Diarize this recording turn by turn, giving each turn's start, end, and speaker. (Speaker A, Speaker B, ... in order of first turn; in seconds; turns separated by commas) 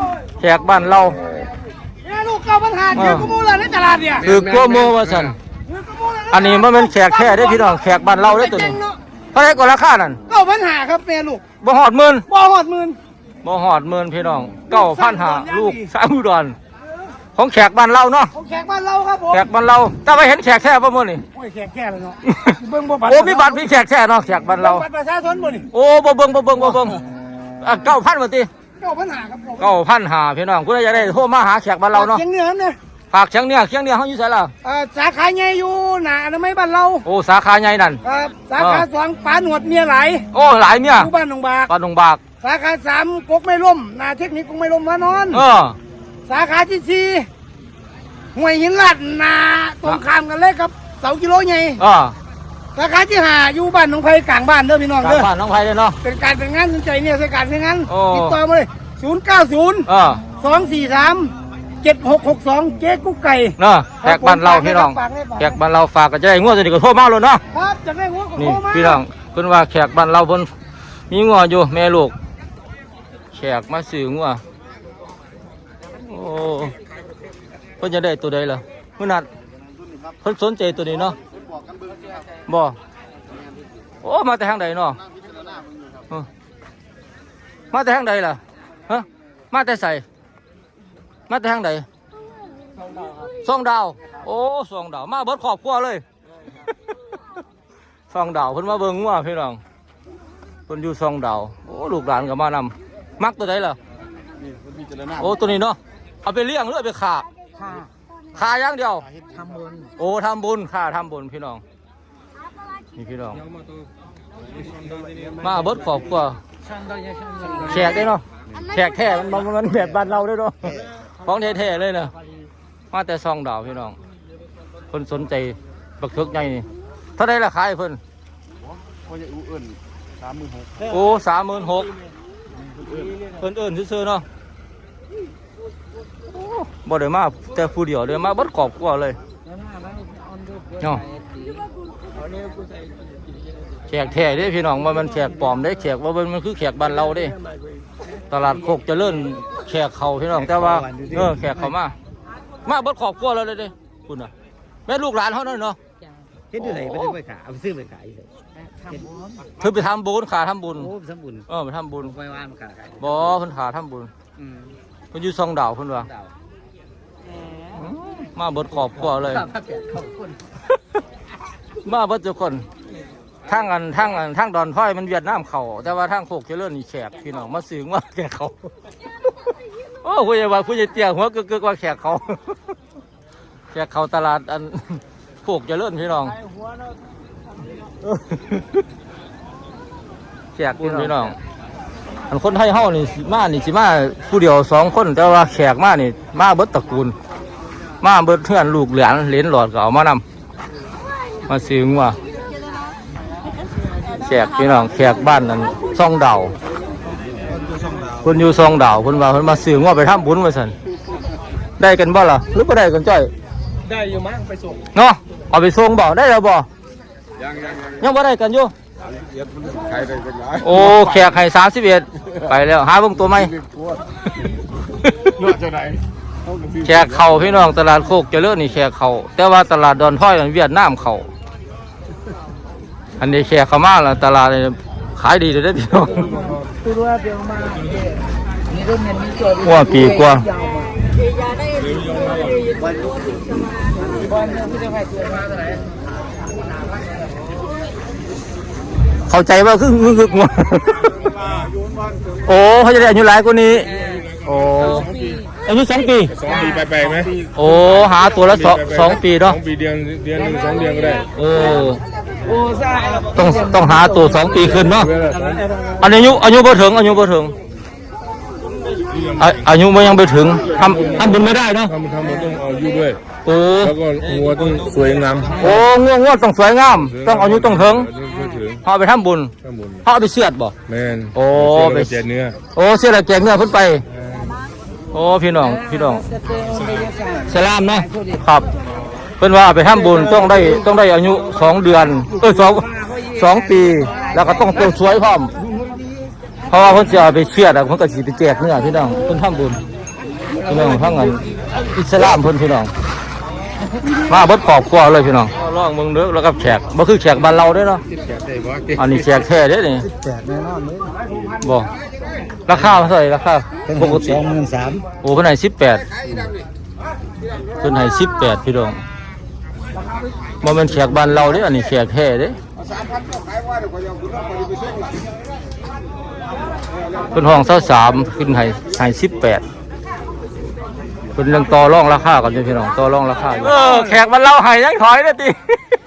Speaker A: 0.4-1.2, Speaker B: 2.0-4.4, Speaker A: 2.9-3.3, Speaker A: 4.2-5.4, Speaker B: 5.7-9.0, Speaker A: 6.3-8.8, Speaker A: 9.3-10.2, Speaker B: 10.3-11.4, Speaker A: 11.6-12.3, Speaker B: 12.3-13.0, Speaker A: 13.4-16.6, Speaker B: 14.7-15.9, Speaker A: 17.4-18.3, Speaker B: 18.3-19.5, Speaker A: 19.3-21.2, Speaker B: 21.3-23.7, Speaker A: 22.3-22.6, Speaker A: 23.1-24.8, Speaker B: 24.6-25.7, Speaker A: 25.7-27.0, Speaker A: 27.6-28.5, Speaker B: 28.8-29.7, Speaker A: 29.6-32.2, Speaker B: 31.9-32.8, Speaker A: 33.1-34.5, Speaker B: 34.6-37.0, Speaker A: 37.0-38.0, Speaker B: 38.0-40.3, Speaker A: 38.6-38.8, Speaker A: 40.3-41.1, Speaker B: 40.9-41.7, Speaker A: 41.7-42.2, Speaker B: 42.4-45.4, Speaker A: 45.3-45.8, Speaker B: 46.3-47.3, Speaker B: 48.4-51.8, Speaker A: 51.8-52.1, Speaker B: 52.8-55.3, Speaker A: 55.0-56.0, Speaker B: 56.0-59.9, Speaker A: 57.9-58.4, Speaker A: 59.9-60.2, Speaker B: 60.4-65.5, Speaker A: 63.6-67.4, Speaker B: 67.5-69.0, Speaker A: 68.4-70.5, Speaker A: 71.1-72.1, Speaker A: 73.3-74.4, Speaker A: 76.0-76.8, Speaker A: 77.8-79.3, Speaker A: 80.2-81.2, Speaker A: 82.5-82.8, Speaker A: 84.0-85.0, Speaker A: 87.7-90.0, Speaker A: 91.3-91.9, Speaker A: 93.4-96.0, Speaker A: 98.1-99.6, Speaker A: 100.7-103.8, Speaker A: 105.1-107.3, Speaker A: 108.3-109.1, Speaker C: 109.4-109.8, Speaker A: 110.0-111.6, Speaker A: 113.0-113.5, Speaker A: 115.4-116.4, Speaker C: 117.0-117.5, Speaker A: 117.6-122.1, Speaker A: 122.9-124.0, Speaker A: 124.9-126.7, Speaker A: 127.2-128.0, Speaker A: 130.8-131.9, Speaker A: 133.4-134.2, Speaker A: 136.3-139.2, Speaker C: 139.5-141.7, Speaker A: 140.8-141.0, Speaker A: 143.9-147.4, Speaker A: 148.3-151.9, Speaker C: 150.5-151.4, Speaker A: 152.7-154.3, Speaker A: 154.9-155.8, Speaker C: 156.5-158.3, Speaker A: 156.6-157.2, Speaker A: 159.6-160.9, Speaker C: 160.8-161.5, Speaker A: 161.5-162.2, Speaker C: 162.1-163.2, Speaker A: 163.0-164.1, Speaker A: 165.1-166.1, Speaker A: 167.8-169.5, Speaker C: 169.2-170.4, Speaker A: 171.8-172.7, Speaker A: 173.5-178.6, Speaker A: 180.0-182.6, Speaker A: 183.7-186.4, Speaker A: 188.1-188.8, Speaker A: 190.6-191.4, Speaker A: 192.3-197.2, Speaker A: 198.0-200.2, Speaker A: 201.5-202.2, Speaker A: 204.2-206.5, Speaker A: 208.2-210.7, Speaker A: 211.8-213.3, Speaker A: 214.9-216.7, Speaker A: 218.0-218.7, Speaker A: 220.5-223.6, Speaker A: 226.8-231.3, Speaker A: 233.2-236.4, Speaker B: 236.8-237.7, Speaker C: 238.8-239.3, Speaker A: 239.6-240.5, Speaker B: 240.5-240.9, Speaker D: 241.9-242.6, Speaker C: 244.3-245.6, Speaker A: 249.3-251.3, Speaker A: 252.5-256.4, Speaker D: 256.4-257.4, Speaker A: 257.6-259.6, Speaker D: 258.5-261.3, Speaker A: 261.3-262.0, Speaker C: 262.5-263.4, Speaker A: 263.3-265.1, Speaker D: 264.9-265.7, Speaker A: 266.0-267.6, Speaker A: 269.4-271.9, Speaker D: 270.8-271.3, Speaker D: 272.0-273.2, Speaker A: 273.4-274.0, Speaker D: 273.9-275.7, Speaker A: 275.6-278.1, Speaker D: 277.2-278.8, Speaker A: 278.8-279.5, Speaker A: 280.0-280.7, Speaker D: 280.9-282.6, Speaker A: 281.3-284.0, Speaker A: 285.1-286.3, Speaker C: 286.3-287.2, Speaker A: 287.5-288.7, Speaker A: 289.4-295.5, Speaker A: 296.7-299.8, Speaker A: 300.6-302.9, Speaker A: 304.1-308.0, Speaker A: 308.9-310.1, Speaker C: 310.1-311.2, Speaker A: 311.6-311.9, Speaker A: 312.7-314.4, Speaker C: 313.9-315.1, Speaker A: 315.2-316.1, Speaker A: 317.8-319.0, Speaker A: 320.6-322.6, Speaker A: 327.3-329.6, Speaker A: 331.4-335.6